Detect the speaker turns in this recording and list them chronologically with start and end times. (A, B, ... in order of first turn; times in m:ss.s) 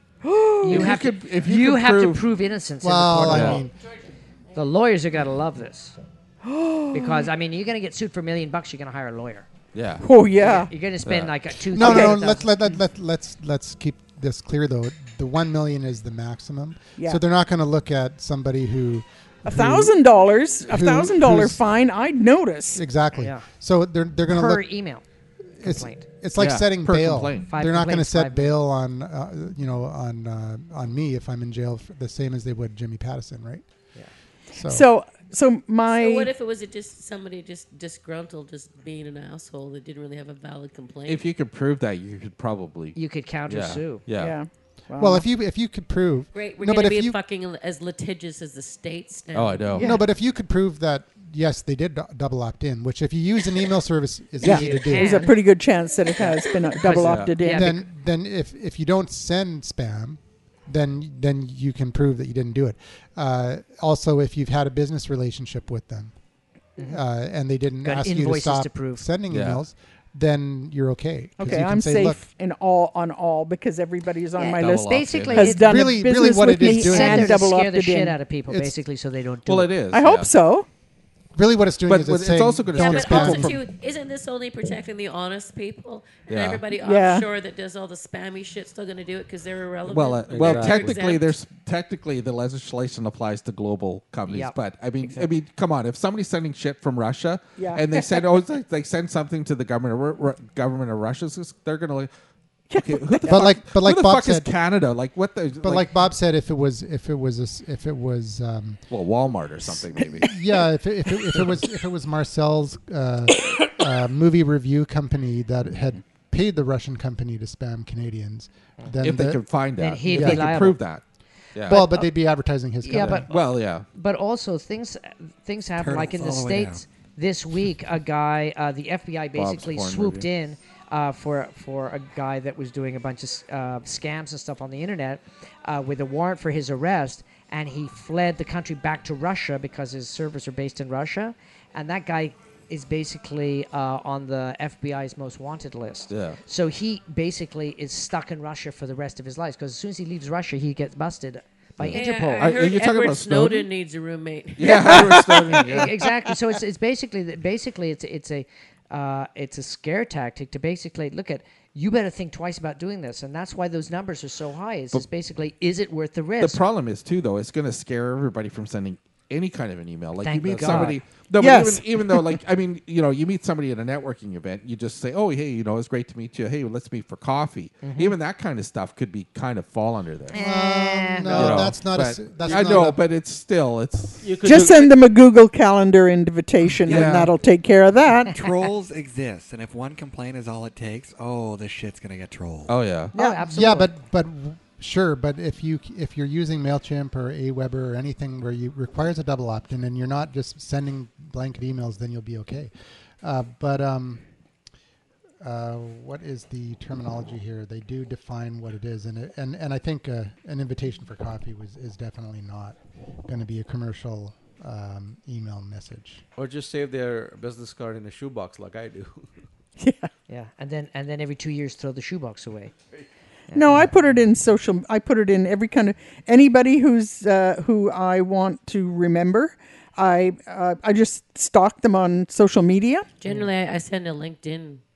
0:00.2-0:01.0 A
0:00.6-0:03.7 B
0:00.6-0:02.2 C
0:02.8-0:03.7 D
0:03.3-0:03.6 C
0:04.5-0:06.0 B
0:06.4-0:07.3 A
0:06.9-0:09.5 B
0:09.7-0:10.1 C
0:10.0-0:10.7 A
0:10.4-0:12.5 B
0:11.0-0:11.4 C
0:11.7-0:19.9 D
0:11.7-0:12.2 A
0:19.4-0:22.8 A
0:20.7-0:21.6 D
0:22.7-0:24.7 D
0:23.1-0:23.4 B
0:24.3-0:25.0 B
0:25.6-0:33.6 D
0:25.6-0:26.1 B
0:26.4-0:27.5 C
0:27.4-0:28.6 B
0:34.5-0:34.9 D
0:34.6-0:36.3 A
0:35.9-0:41.3 E
0:41.1-0:44.4 C
0:42.9-0:44.1 B
0:44.2-0:45.3 A
0:45.0-0:47.2 D
0:46.3-0:49.8 E
0:49.3-0:49.9 C
0:49.7-0:50.0 A
0:49.8-0:55.2 D
0:54.4-0:55.4 B
0:54.4-0:57.7 A
0:56.2-0:57.8 B
0:56.9-0:57.4 C
0:57.5-1:06.1 D
1:06.8-1:07.0 B
1:06.9-1:12.2 D
1:07.8-1:09.1 B
1:09.3-1:09.6 C
1:11.4-1:18.2 A
1:14.4-1:15.9 B
1:14.6-1:15.5 C
1:15.6-1:17.5 D
1:16.6-1:19.9 B
1:19.4-1:20.3 C
1:19.9-1:20.7 A
1:21.4-1:23.6 D
1:21.9-1:23.6 C
1:22.7-1:31.4 E
1:26.3-1:26.6 C
1:26.7-1:27.3 A
1:29.9-1:42.1 C
1:30.3-1:31.0 F
1:34.3-1:35.3 B
1:37.6-1:38.4 A
1:42.7-1:43.4 A
1:42.7-1:45.9 C
1:43.3-1:44.5 D
1:45.6-1:48.8 D
1:48.9-1:50.3 C
1:50.2-1:59.5 D
1:59.0-2:01.0 C
1:59.8-2:00.8 B
2:00.1-2:00.5 D
2:01.6-2:01.9 C
2:01.6-2:02.1 B
2:01.6-2:03.3 D
2:02.8-2:32.7 B
2:02.9-2:03.9 C
2:05.8-2:06.8 G
2:09.4-2:10.3 C
2:26.1-2:26.4 C
2:31.8-2:33.7 C
2:31.9-2:35.4 E
2:34.6-2:36.4 C
2:34.7-2:46.6 B
2:46.4-3:00.4 C
2:50.2-2:51.1 B
2:50.6-2:52.4 A
2:57.8-2:58.2 B
3:00.3-3:01.7 B
3:00.3-3:03.0 D
3:01.3-3:04.3 C
3:02.4-3:02.8 F
3:04.2-3:05.0 F
3:04.4-3:08.4 A
3:06.9-3:07.2 G
3:06.9-3:07.3 C
3:08.3-3:12.8 G
3:12.7-3:13.1 C
3:13.1-3:13.9 B
3:13.4-3:24.2 D
3:25.4-3:36.2 D
3:36.4-3:39.3 F
3:39.8-3:40.1 A
3:40.3-3:42.7 B
3:43.5-3:44.0 B
3:43.5-3:53.1 A
3:53.2-3:54.8 E